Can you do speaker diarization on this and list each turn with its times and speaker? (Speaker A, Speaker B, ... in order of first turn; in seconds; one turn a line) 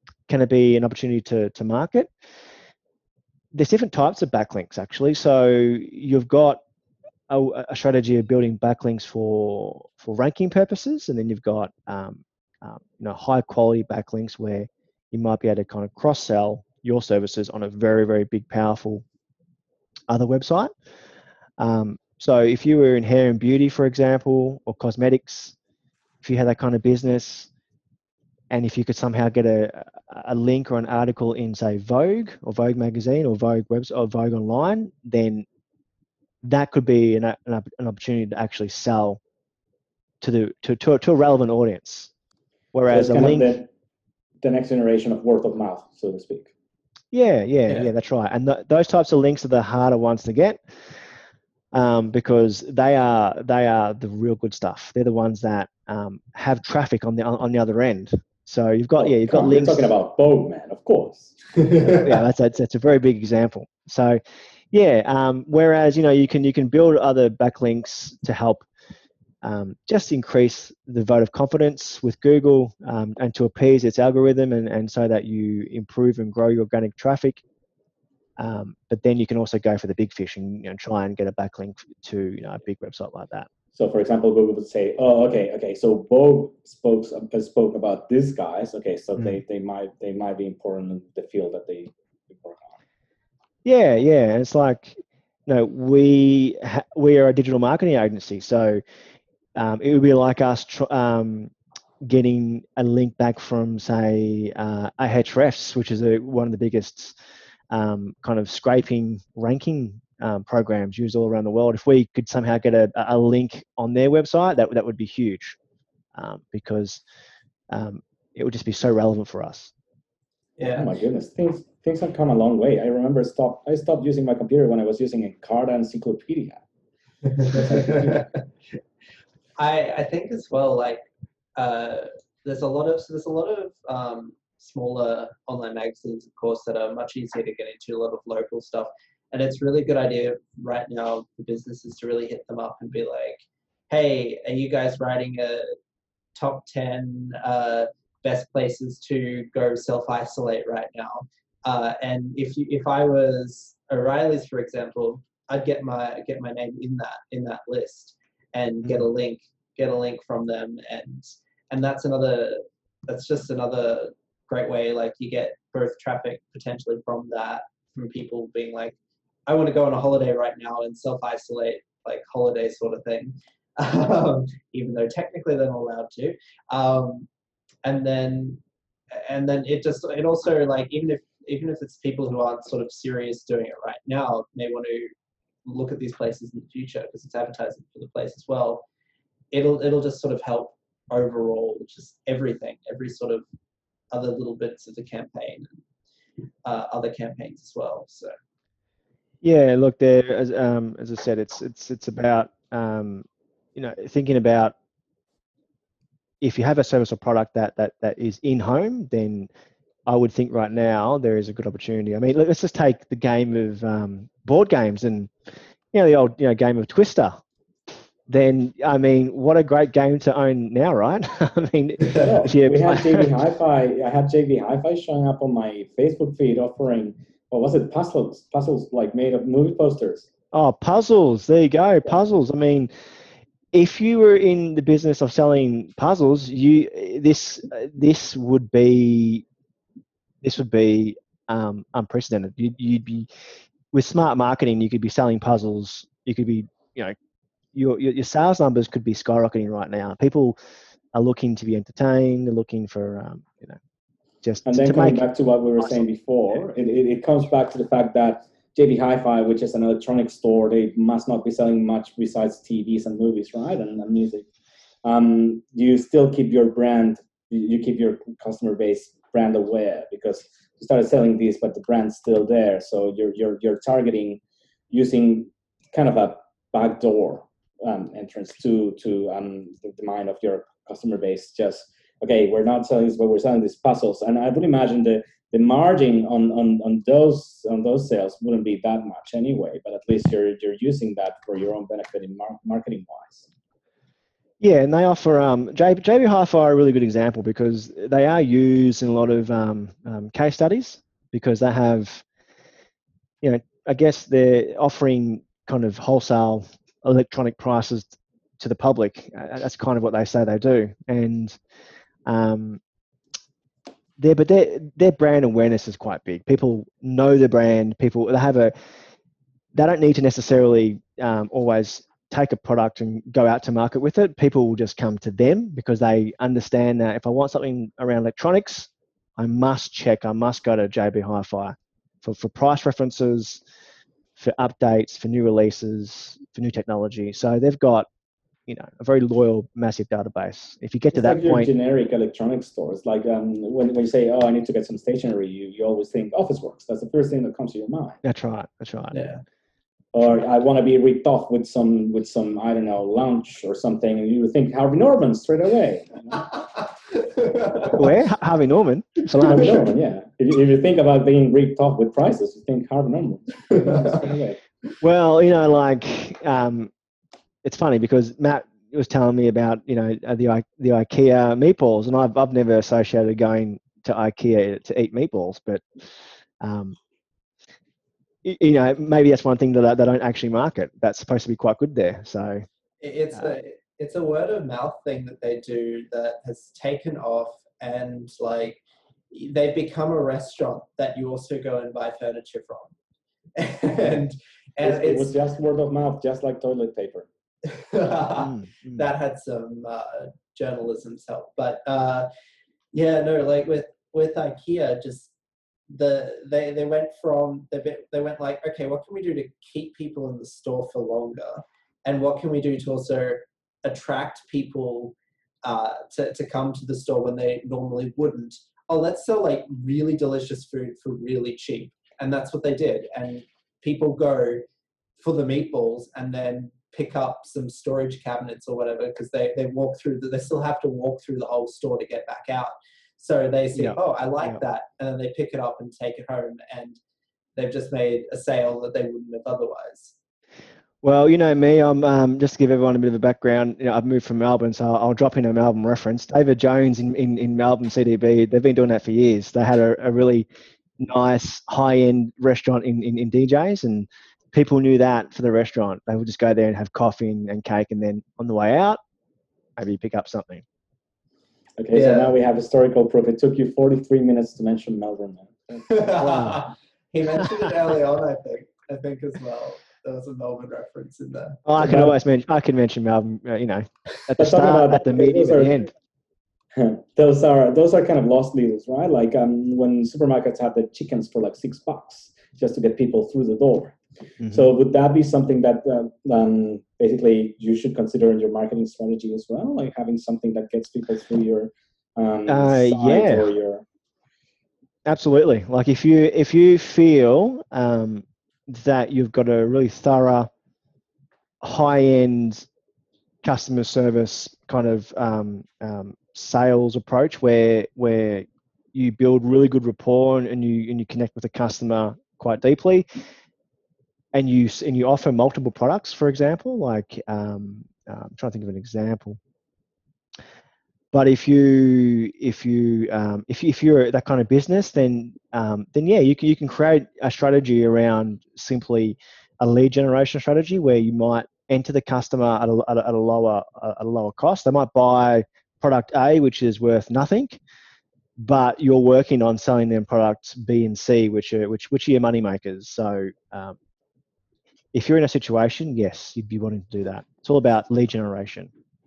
Speaker A: 0.3-2.1
Speaker A: 3.5-6.6
Speaker A: 7.3-19.0
Speaker A: 20.1-20.7
Speaker A: 21.6-25.5
Speaker A: 26.2-27.5
Speaker A: 28.5-35.5
Speaker A: 36.4-39.2
Speaker A: 40.2-42.1
Speaker A: 42.7-43.5
Speaker B: 42.9-43.7
Speaker B: 44.4-46.5
Speaker A: 47.1-50.6
Speaker A: 51.7-59.9
Speaker B: 59.0-62.0
Speaker A: 61.9-64.2
Speaker A: 64.7-68.7
Speaker A: 69.4-77.4
Speaker A: 78.4-83.5
Speaker B: 83.7-92.8
Speaker A: 93.6-98.8
Speaker A: 99.5-107.1
Speaker A: 107.7-115.6
Speaker A: 116.1-117.0
Speaker A: 117.7-119.7
Speaker C: 120.6-120.9
Speaker B: 120.7-126.6
Speaker C: 127.4-128.2
Speaker B: 127.4-128.3
Speaker C: 129.6-131.0
Speaker C: 131.6-145.7
Speaker C: 146.3-168.9
Speaker C: 169.5-177.3
Speaker C: 177.8-178.6
Speaker C: 179.1-185.1
Speaker C: 185.6-188.8
Speaker C: 189.5-193.4
Speaker C: 194.1-195.8
Speaker C: 196.6-198.3
Speaker A: 199.4-204.7
Speaker A: 206.4-209.5
Speaker A: 210.1-215.3
Speaker A: 215.9-217.4
Speaker A: 218.3-223.4
Speaker B: 222.1-230.3
Speaker A: 230.5-232.9
Speaker A: 233.7-239.4
Speaker A: 240.4-243.3
Speaker A: 243.9-247.1
Speaker A: 247.7-250.6
Speaker A: 251.1-253.8
Speaker A: 254.4-255.2
Speaker B: 254.7-264.4
Speaker A: 255.8-256.0
Speaker B: 265.0-274.4
Speaker B: 274.9-293.5
Speaker A: 294.6-302.2
Speaker A: 303.4-311.6
Speaker A: 312.2-312.8
Speaker A: 314.2-318.7
Speaker A: 319.7-333.6
Speaker A: 334.4-338.1
Speaker A: 338.7-341.7
Speaker B: 341.1-348.2
Speaker A: 348.2-349.2
Speaker C: 349.1-349.4
Speaker B: 350.1-356.4
Speaker C: 357.1-358.0
Speaker A: 357.9-359.8
Speaker B: 359.3-364.6
Speaker A: 365.0-366.9
Speaker A: 367.6-375.8
Speaker A: 376.6-377.0
Speaker A: 378.4-382.6
Speaker C: 383.0-388.8
Speaker C: 389.3-392.9
Speaker C: 393.6-395.3
Speaker B: 394.8-397.3
Speaker C: 397.7-402.3
Speaker A: 398.4-399.0
Speaker C: 402.9-405.3
Speaker C: 405.9-424.6
Speaker C: 425.2-437.0
Speaker A: 433.7-434.6
Speaker C: 437.6-440.1
Speaker A: 441.0-450.5
Speaker A: 451.0-459.0
Speaker A: 459.8-460.6
Speaker B: 461.8-465.9
Speaker C: 461.9-462.3
Speaker C: 465.9-471.6
Speaker A: 466.2-466.6
Speaker A: 471.6-475.9
Speaker B: 471.8-472.1
Speaker B: 474.4-475.9
Speaker B: 476.7-493.8
Speaker A: 492.5-493.5
Speaker A: 495.1-500.5
Speaker A: 501.6-502.6
Speaker A: 503.4-513.0
Speaker A: 514.3-519.4
Speaker A: 521.1-537.6
Speaker A: 538.4-543.8
Speaker A: 544.9-548.7